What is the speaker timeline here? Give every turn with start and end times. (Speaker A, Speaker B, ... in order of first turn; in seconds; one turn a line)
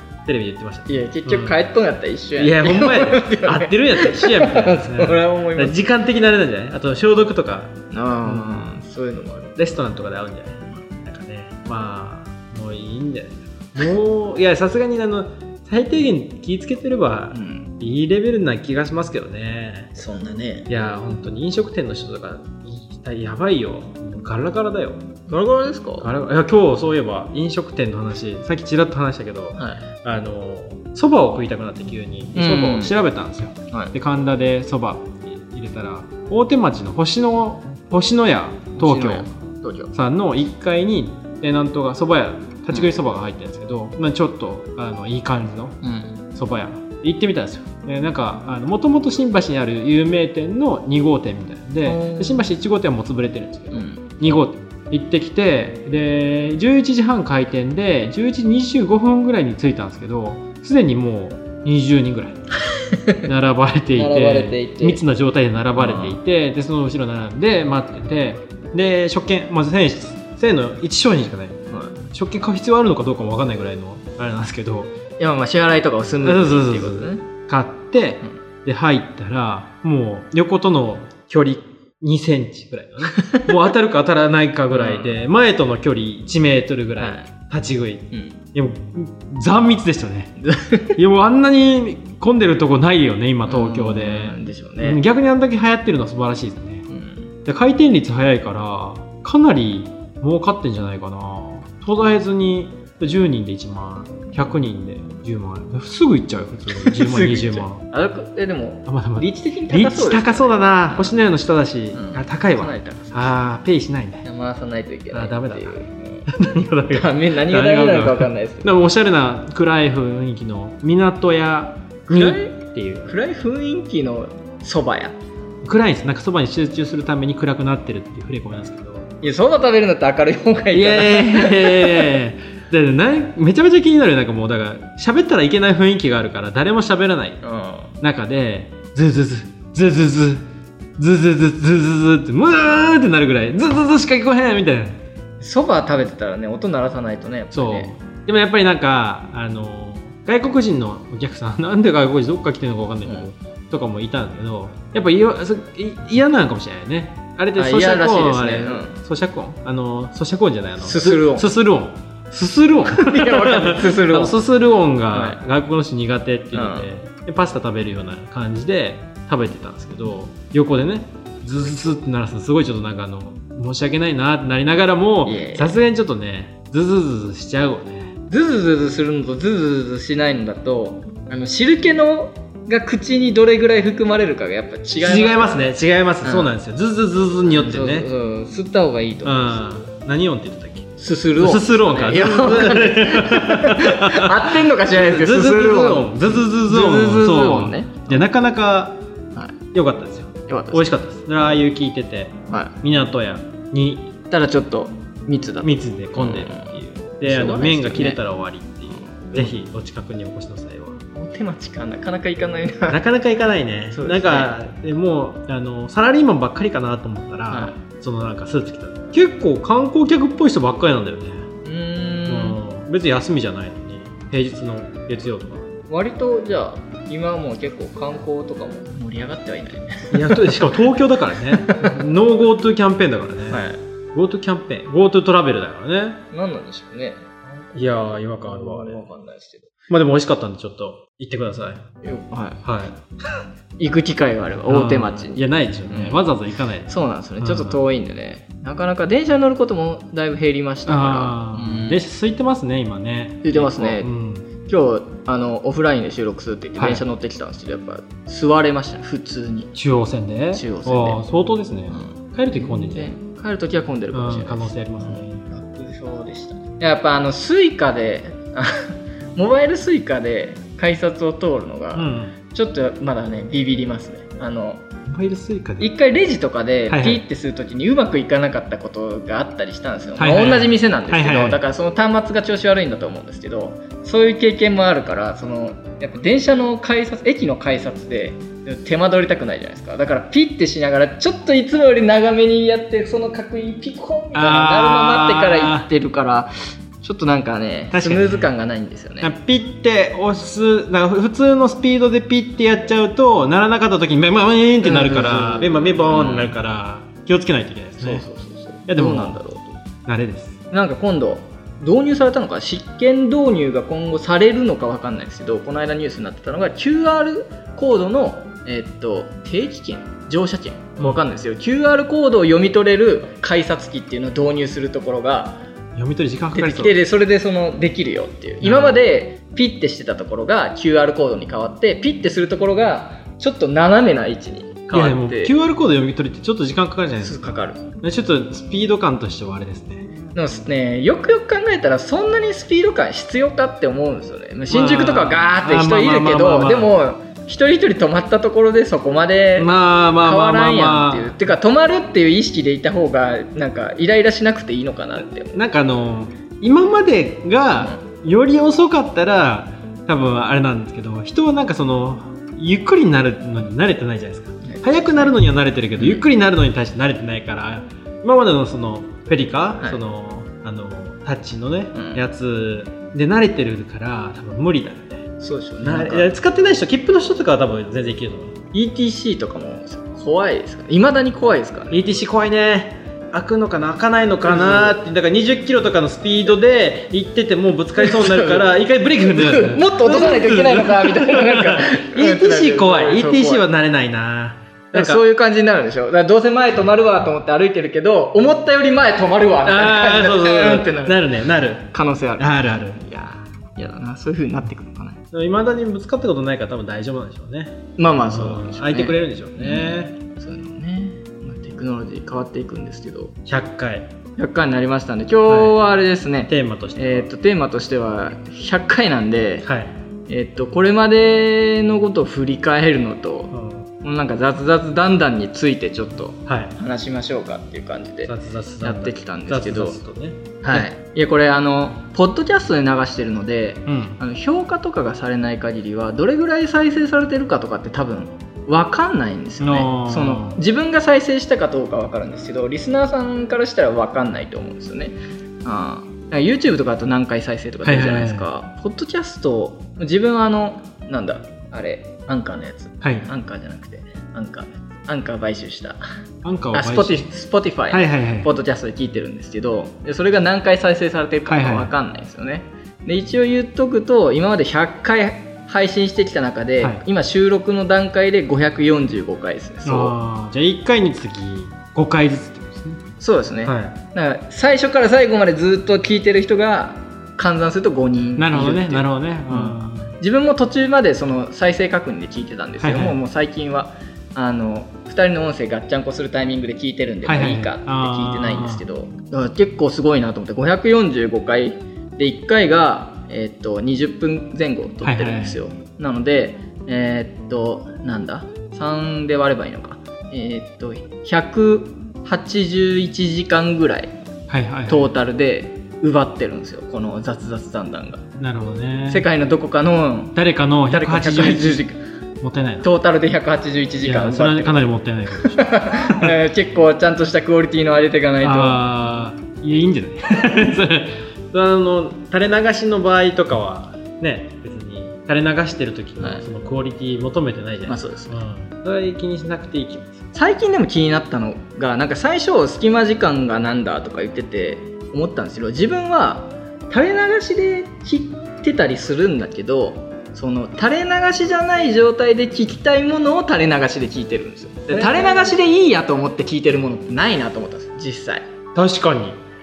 Speaker A: 0.2-1.7
Speaker B: 0.9-5.7
Speaker A: 2.4-8.7
Speaker B: 7.9-9.5
Speaker A: 9.6-19.9
Speaker B: 17.3-17.7
Speaker B: 19.9-20.7
Speaker A: 20.7-25.1
Speaker B: 25.3-26.1
Speaker A: 26.0-39.3
Speaker B: 29.6-29.8
Speaker B: 32.3-33.0
Speaker B: 38.8-39.9
Speaker A: 39.9-45.8
Speaker B: 45.8-46.2
Speaker A: 46.3-62.4
Speaker B: 51.8-52.5
Speaker B: 53.7-54.0
Speaker B: 62.7-63.2
Speaker A: 63.2-74.9
Speaker B: 63.9-65.0
Speaker B: 65.8-66.2
Speaker B: 71.7-72.0
Speaker B: 75.2-77.2
Speaker A: 76.2-90.3
Speaker B: 83.1-83.5
Speaker B: 84.7-85.2
Speaker B: 87.0-87.3
Speaker B: 88.1-88.4
Speaker B: 90.4-91.0
Speaker A: 91.0-96.8
Speaker B: 93.5-95.0
Speaker B: 96.9-97.3
Speaker A: 97.4-107.8
Speaker B: 106.7-111.1
Speaker A: 108.9-114.2
Speaker B: 111.9-113.4
Speaker B: 114.2-116.3
Speaker A: 115.1-123.1
Speaker B: 116.9-118.7
Speaker B: 122.1-122.5
Speaker B: 123.1-125.1
Speaker A: 125.6-129.1
Speaker B: 129.2-132.1
Speaker A: 130.7-137.4
Speaker B: 137.4-137.9
Speaker A: 138.0-140.4
Speaker A: 141.0-145.0
Speaker B: 145.4-147.9
Speaker A: 147.5-178.1
Speaker B: 157.6-159.0
Speaker B: 160.8-161.5
Speaker B: 162.8-164.4
Speaker B: 165.1-165.4
Speaker B: 166.5-166.9
Speaker B: 175.2-175.8
Speaker B: 178.3-185.7
Speaker A: 185.0-188.1
Speaker B: 186.2-186.5
Speaker B: 187.4-189.6
Speaker A: 189.2-199.0
Speaker B: 191.0-198.2
Speaker A: 199.7-204.1
Speaker B: 200.5-201.0
Speaker B: 202.5-202.7
Speaker B: 204.3-208.2
Speaker A: 205.6-211.0
Speaker B: 208.9-209.5
Speaker B: 211.1-213.0
Speaker A: 212.9-221.5
Speaker B: 213.9-214.5
Speaker B: 217.5-217.7
Speaker B: 221.6-222.6
Speaker A: 222.3-225.7
Speaker B: 225.9-230.7
Speaker A: 230.1-236.2
Speaker B: 231.6-232.0
Speaker B: 233.5-233.8
Speaker B: 236.3-237.8
Speaker A: 237.7-239.0
Speaker B: 238.4-239.7
Speaker A: 239.9-241.8
Speaker B: 242.0-242.6
Speaker A: 242.6-243.0
Speaker B: 243.8-246.3
Speaker A: 244.7-247.8
Speaker B: 246.9-252.0
Speaker A: 250.9-254.4
Speaker B: 253.4-254.1
Speaker B: 254.7-259.7
Speaker A: 256.8-257.0
Speaker A: 259.7-263.1
Speaker B: 260.5-261.2
Speaker B: 261.9-274.8
Speaker A: 264.1-265.4
Speaker A: 271.9-272.3
Speaker A: 275.1-275.9
Speaker B: 275.8-299.3
Speaker A: 276.9-277.2
Speaker A: 280.2-281.6
Speaker A: 294.3-295.9
Speaker A: 297.9-298.5
Speaker A: 299.2-308.2
Speaker B: 304.8-306.6
Speaker B: 308.0-309.8
Speaker A: 308.9-309.4
Speaker A: 310.1-310.5
Speaker B: 310.7-325.6
Speaker A: 325.9-326.9
Speaker B: 326.5-335.5
Speaker A: 328.6-329.0
Speaker A: 334.9-340.1
Speaker B: 337.2-337.8
Speaker B: 340.3-355.6
Speaker A: 344.7-346.9
Speaker A: 349.6-351.4
Speaker A: 355.2-375.2
Speaker B: 364.6-365.3
Speaker B: 366.0-366.2
Speaker B: 371.9-372.2
Speaker B: 375.4-376.3
Speaker A: 375.8-378.6
Speaker B: 378.7-382.0
Speaker A: 381.9-395.2
Speaker B: 384.4-385.0
Speaker B: 388.0-388.7
Speaker B: 389.2-393.6
Speaker B: 394.9-405.2
Speaker A: 399.6-403.0
Speaker A: 405.3-410.1
Speaker B: 408.0-413.4
Speaker A: 413.4-414.1
Speaker B: 414.4-419.7
Speaker A: 415.5-415.8
Speaker A: 416.5-417.3
Speaker A: 419.6-419.9
Speaker B: 420.3-430.0
Speaker A: 423.5-423.9
Speaker A: 426.5-426.7
Speaker A: 428.2-430.9
Speaker B: 430.6-456.0
Speaker A: 433.9-434.2
Speaker A: 439.6-440.6
Speaker A: 447.8-448.5
Speaker A: 453.0-453.3
Speaker A: 456.4-457.2
Speaker B: 456.7-470.1
Speaker A: 457.9-458.5
Speaker A: 461.5-461.9
Speaker A: 469.8-473.0
Speaker B: 473.2-504.1
Speaker A: 473.6-474.0
Speaker A: 478.4-480.1
Speaker A: 482.8-483.2
Speaker A: 487.2-488.8
Speaker A: 495.0-495.6
Speaker A: 504.5-505.1
Speaker B: 504.9-508.2
Speaker A: 508.4-509.3
Speaker B: 509.1-510.4
Speaker A: 510.3-511.9
Speaker B: 510.9-512.0
Speaker A: 512.4-512.9
Speaker B: 512.8-514.9
Speaker A: 514.0-516.3
Speaker B: 515.4-518.8
Speaker A: 518.4-530.2
Speaker B: 527.9-528.4
Speaker B: 530.3-548.5
Speaker A: 544.9-545.5
Speaker A: 548.7-549.4